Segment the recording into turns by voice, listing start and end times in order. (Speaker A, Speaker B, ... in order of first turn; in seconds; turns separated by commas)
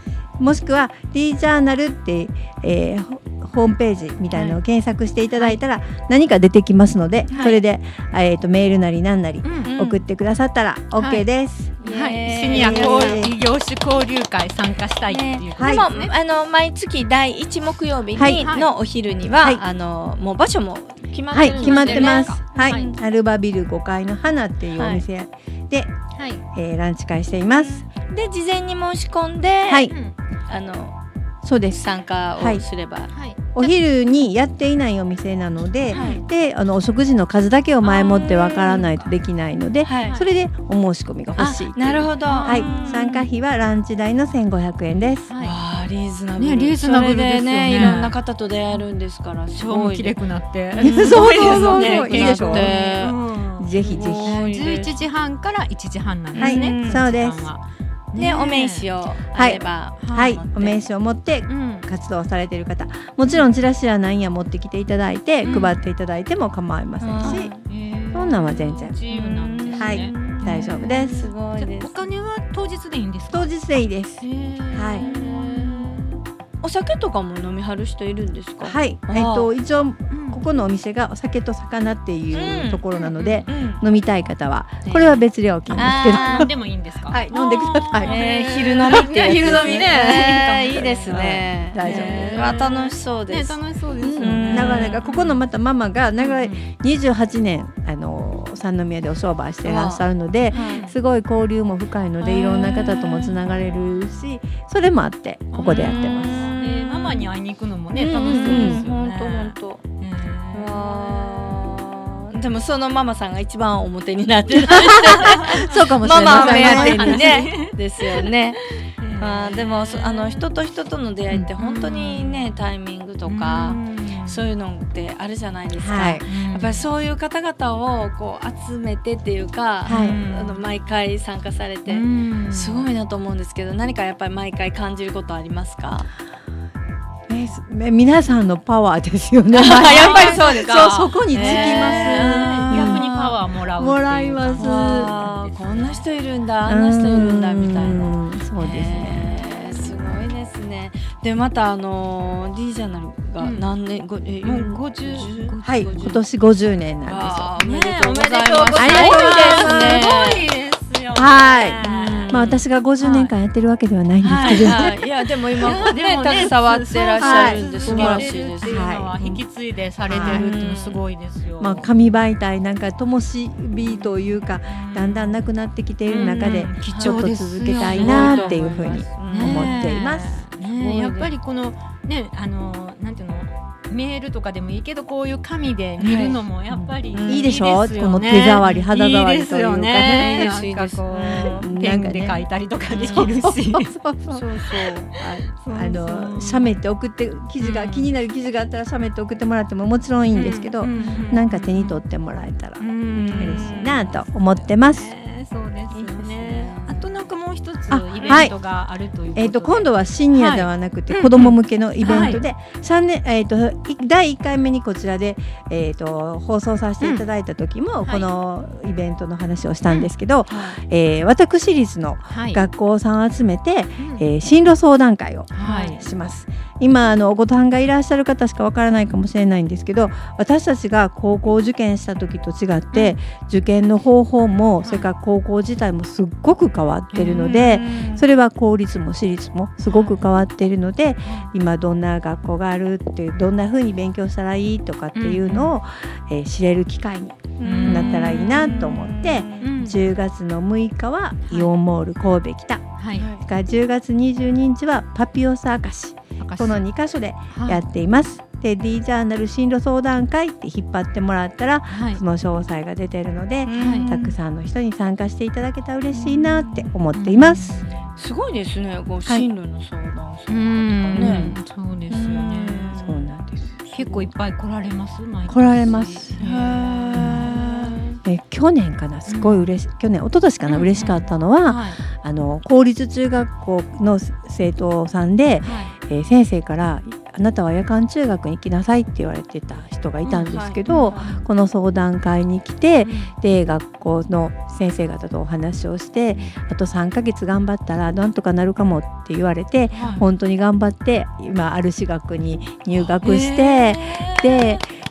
Speaker A: 0.4-11.8, Speaker B: 7.3-7.6, Speaker C: 9.4-9.7, Speaker B: 9.6-10.0, Speaker C: 11.0-11.2, Speaker B: 11.8-13.2, Speaker C: 11.8-16.1, Speaker A: 12.5-13.3, Speaker B: 15.1-23.0, Speaker A: 15.6-15.9, Speaker A: 18.1-18.5, Speaker C: 18.4-18.7, Speaker A: 21.3-25.9, Speaker C: 21.3-22.9, Speaker B: 24.8-25.0, Speaker C: 26.1-26.4, Speaker A: 26.5-27.9, Speaker B: 27.5-29.9, Speaker A: 29.7-29.9, Speaker C: 29.9-30.1, Speaker B: 30.5-30.9, Speaker A: 31.4-31.8, Speaker B: 31.7-33.1, Speaker A: 32.4-32.6, Speaker C: 33.1-33.7, Speaker A: 33.5-45.3, Speaker C: 35.9-36.2, Speaker B: 35.9-36.2, Speaker B: 37.9-38.9, Speaker B: 39.9-40.2, Speaker C: 40.0-40.3, Speaker B: 41.4-43.2, Speaker C: 42.2-42.7, Speaker C: 45.3-45.5, Speaker B: 45.4-50.1, Speaker C: 46.4-48.1, Speaker C: 49.5-58.9, Speaker B: 50.7-53.2, Speaker A: 50.8-52.8, Speaker A: 53.6-54.4, Speaker B: 53.8-55.0, Speaker B: 56.3-57.0, Speaker A: 56.4-57.5, Speaker B: 58.2-60.8, Speaker A: 59.3-67.5, Speaker C: 60.0-60.4, Speaker C: 61.5-61.9, Speaker C: 65.4-65.8, Speaker B: 67.0-67.6, Speaker C: 67.2-73.5, Speaker A: 68.1-69.0, Speaker B: 69.1-72.1, Speaker A: 69.8-71.3, Speaker A: 73.3-75.1, Speaker C: 74.2-76.2, Speaker B: 75.0-75.9, Speaker B: 76.6-79.5, Speaker A: 78.6-86.5, Speaker C: 80.1-80.4, Speaker B: 82.3-82.8, Speaker C: 83.0-83.5, Speaker B: 83.5-83.8, Speaker C: 85.7-95.4, Speaker B: 85.8-86.5, Speaker A: 87.1-88.2, Speaker B: 88.0-93.6, Speaker A: 88.9-90.0, Speaker A: 90.8-92.3, Speaker A: 94.0-106.5, Speaker B: 94.2-95.0, Speaker C: 96.2-96.7, Speaker B: 99.6-100.8, Speaker C: 100.5-101.0, Speaker C: 102.2-103.3, Speaker C: 105.5-111.9, Speaker B: 105.6-107.3, Speaker A: 108.0-108.8, Speaker B: 108.2-109.8, Speaker B: 110.5-118.6, Speaker A: 114.6-117.4, Speaker C: 114.7-120.5, Speaker B: 119.2-136.1, Speaker C: 121.6-122.5, Speaker C: 123.2-124.4, Speaker A: 125.8-126.2, Speaker C: 126.2-126.9, Speaker A: 129.8-130.2, Speaker C: 129.8-130.7, Speaker C: 131.9-132.9, Speaker A: 137.3-143.1, Speaker B: 139.5-143.3, Speaker C: 139.7-146.0, Speaker A: 143.8-145.2, Speaker B: 144.6-156.2, Speaker A: 146.7-149.4, Speaker C: 153.4-153.7, Speaker C: 154.4-155.9, Speaker A: 155.6-157.5, Speaker B: 157.0-160.5, Speaker C: 157.6-163.3, Speaker A: 158.8-160.1, Speaker A: 161.2-165.0, Speaker B: 161.8-162.5, Speaker B: 164.2-168.8, Speaker C: 164.2-164.9, Speaker C: 165.6-171.9, Speaker A: 167.2-169.4, Speaker A: 170.1-170.5, Speaker B: 170.1-171.0, Speaker A: 171.6-180.4, Speaker C: 174.7-175.5, Speaker C: 176.1-193.9, Speaker B: 176.4-177.2, Speaker B: 177.7-179.8, Speaker B: 180.6-181.3, Speaker B: 186.0-186.4, Speaker A: 186.7-190.5, Speaker B: 187.1-187.5, Speaker B: 190.0-191.7, Speaker A: 191.3-194.5, Speaker B: 192.9-193.3, Speaker B: 194.3-195.1, Speaker C: 195.2-196.7, Speaker A: 195.2-205.1, Speaker C: 197.6-198.1, Speaker C: 200.3-202.0, Speaker C: 202.8-203.7, Speaker B: 203.2-204.2, Speaker C: 204.8-212.4, Speaker B: 205.9-207.1, Speaker A: 207.9-208.5, Speaker B: 208.2-208.5, Speaker A: 209.3-267.8, Speaker B: 220.5-220.8, Speaker C: 222.3-222.6, Speaker C: 224.0-224.2, Speaker C: 225.5-226.0, Speaker C: 234.8-235.1, Speaker C: 237.1-237.7, Speaker B: 237.4-238.2, Speaker C: 239.9-240.3, Speaker C: 241.2-241.5, Speaker C: 245.2-245.8, Speaker B: 247.6-249.7, Speaker C: 247.6-248.7, Speaker C: 249.6-250.0, Speaker C: 251.4-251.7, Speaker C: 253.0-253.2, Speaker B: 253.2-253.4, Speaker C: 256.4-256.8, Speaker C: 257.5-257.8, Speaker C: 261.9-262.2, Speaker B: 263.7-264.4, Speaker C: 263.8-264.1, Speaker C: 267.1-268.0, Speaker B: 268.2-271.5, Speaker C: 270.5-273.0, Speaker A: 271.1-271.6, Speaker B: 272.1-273.2, Speaker A: 273.0-274.1, Speaker C: 273.9-278.0, Speaker A: 275.5-276.4, Speaker B: 276.4-278.2, Speaker A: 277.1-277.5, Speaker A: 278.2-304.9, Speaker C: 279.3-279.7, Speaker C: 280.7-282.0, Speaker C: 285.6-286.0, Speaker C: 290.2-291.4, Speaker B: 290.5-291.4, Speaker C: 293.0-293.3, Speaker C: 299.9-300.2, Speaker B: 300.0-300.2, Speaker C: 303.2-304.0, Speaker B: 304.1-304.5